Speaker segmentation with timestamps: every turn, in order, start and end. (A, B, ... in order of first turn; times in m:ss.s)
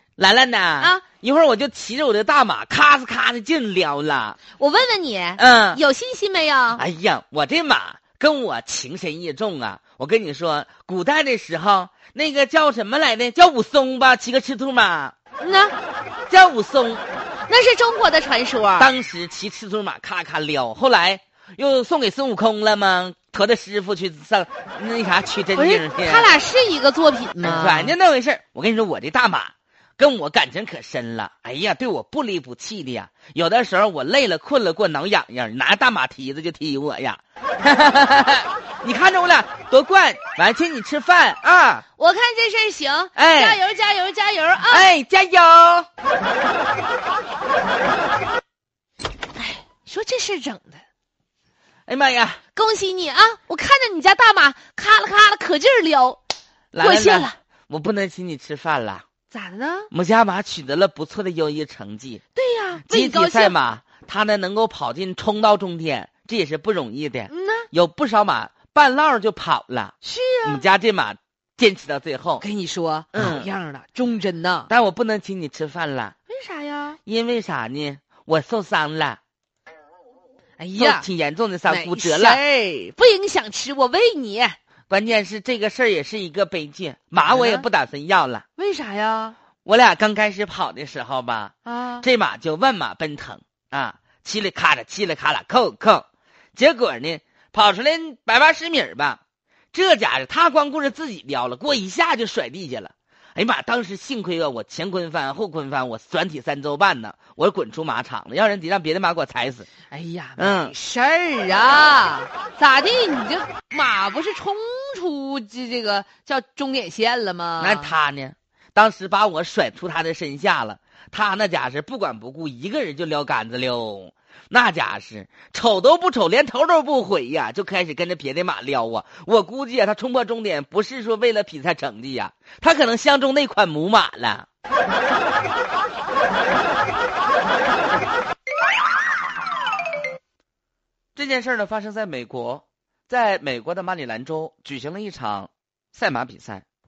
0:00.2-0:04.4 A
0:04.6-0:06.8 B
0:05.4-0:05.8 A
0:06.8-0:15.2 A
0:15.4-0:15.8 B
0:16.3-0:17.0 A
0:17.5-0:18.9 B
0:18.8-0:26.3 A
0:25.6-0:28.0 B
0:27.4-0:41.8 A
0:42.0-0:44.9 B
0:43.2-0:43.6 A
0:44.7-0:45.9 A
0:49.4-0:50.8 B
0:51.9-0:52.4 A
0:52.6-0:56.2 B
0:56.7-0:59.0 A
0:56.8-0:57.4 B
0:59.3-0:59.9 B
0:59.9-1:02.2 A
1:02.4-1:03.6 B
1:02.9-1:12.4 A
1:07.3-1:07.7 B
1:10.0-1:10.7 B
1:12.4-1:14.7 B
1:13.1-1:13.5 A
1:14.7-1:16.2 A
1:16.3-1:17.0 B
1:17.1-1:19.2 A
1:20.6-1:21.1 B
1:20.8-1:22.4 A
1:21.6-1:24.6 B
1:24.9-1:28.4 A
1:27.3-1:27.6 B
1:28.6-1:29.4 B
1:29.6-1:39.2 A
1:31.7-1:32.1 B
1:39.7-1:49.7 A
1:49.9-1:58.0 B
1:50.4-1:50.8 A
1:57.6-2:14.5 A
2:21.2-2:26.6 A